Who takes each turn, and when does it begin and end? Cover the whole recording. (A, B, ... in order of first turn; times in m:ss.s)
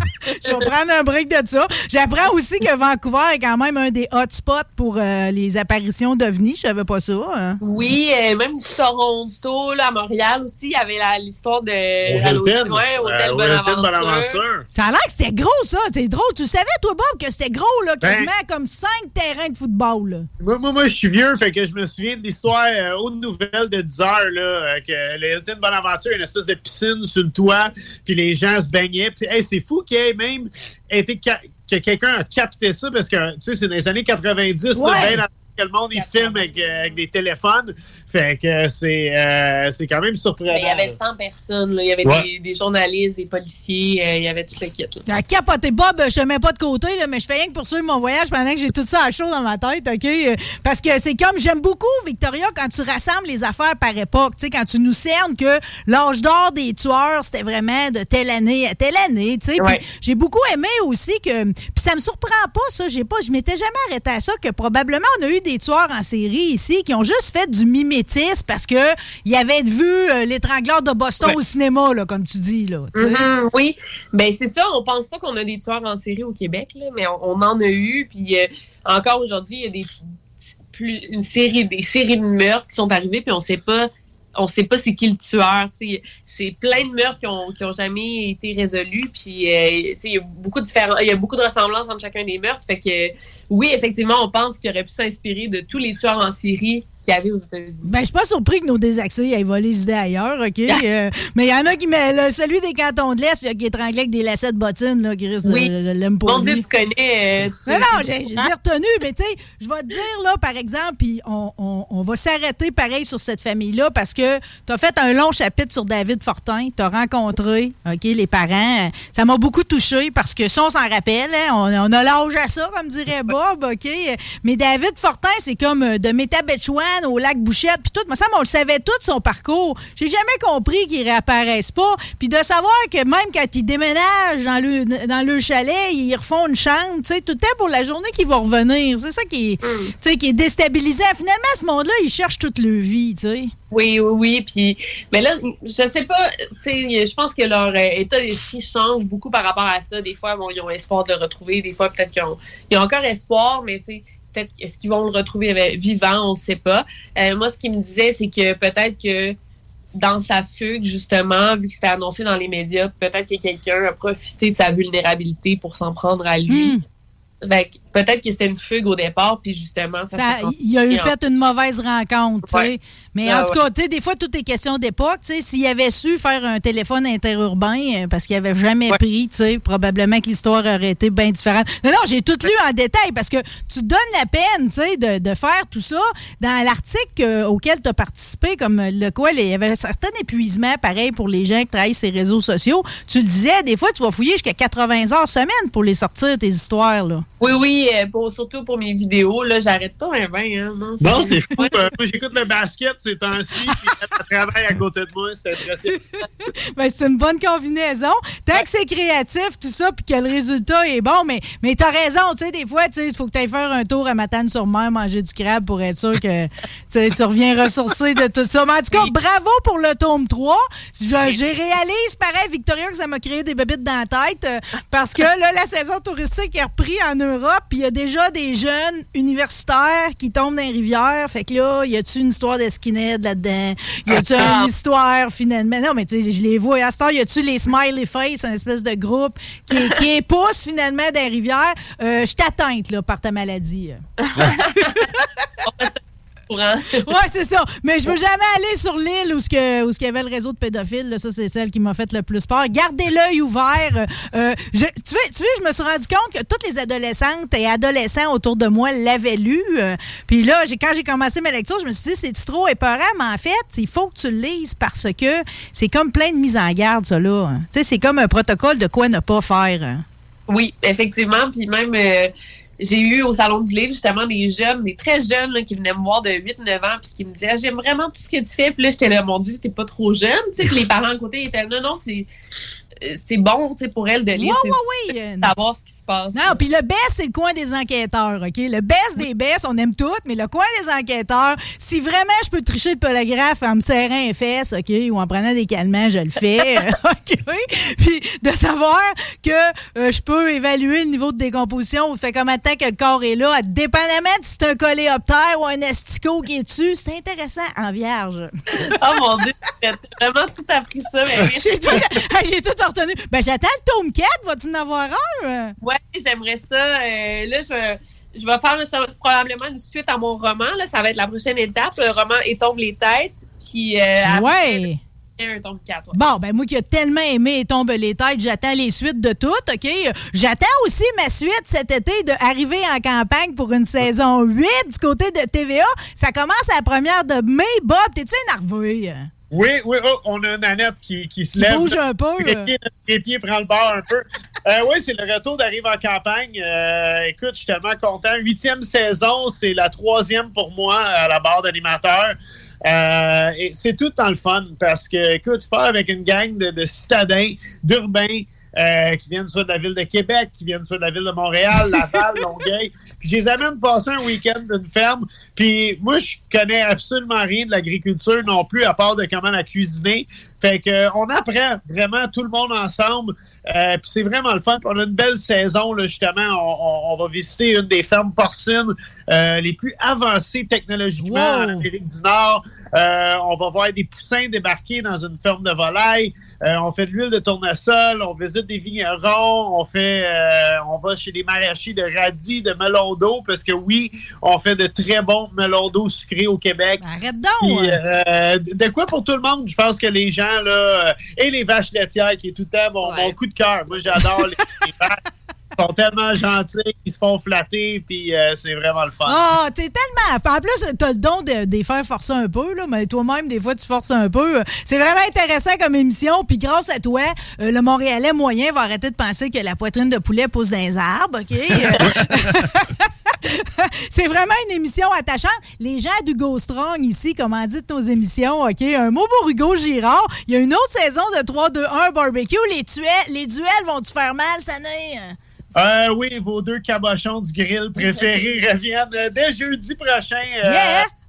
0:00.3-0:07.6 A
0:07.6-0:14.4 B
0:12.0-0:14.6 C
0:14.7-0:20.3 A
0:18.0-0:18.3 C
0:20.4-0:40.9 C
0:34.7-0:35.2 A
0:35.9-0:36.9 B
0:40.5-0:45.0 B
0:45.1-1:13.3 A
1:13.0-1:19.9 B
1:20.7-1:37.9 B
1:37.8-1:46.6 A
1:45.4-1:45.7 B
1:46.2-1:48.5 B
1:47.7-2:23.5 A
2:19.6-2:19.9 B
2:23.7-2:39.3 B
2:39.9-2:46.8 B
2:46.5-2:46.8 A
2:47.4-2:51.1 B
2:50.1-3:17.2 A
2:53.2-2:53.6 B
3:17.4-3:21.7 B
3:21.0-3:26.0 C
3:26.7-4:04.0 A
3:54.1-3:54.7 B
4:04.2-4:05.0 B
4:04.9-4:05.4 A
4:05.6-4:07.0 B
4:07.0-4:30.0 A
4:30.5-4:42.3 B
4:43.0-4:44.8 B
4:44.3-4:45.5 A
4:45.4-4:46.6 B
4:46.3-5:08.8 A
5:08.9-5:12.0 B
5:11.4-5:15.7 A
5:15.8-5:24.9 B
5:24.2-5:25.0 A
5:25.4-5:26.1 B
5:26.1-5:39.3 A
5:39.5-6:37.0 C
5:41.5-5:42.7 A
6:21.2-6:21.9 A
6:37.0-6:38.0 A
6:37.6-6:45.2 C
6:43.0-6:43.3 B
6:45.8-6:49.4 C
6:49.2-7:15.4 A
7:01.8-7:02.1 B
7:15.8-7:21.1 C
7:18.0-7:18.5 B
7:20.6-7:21.1 A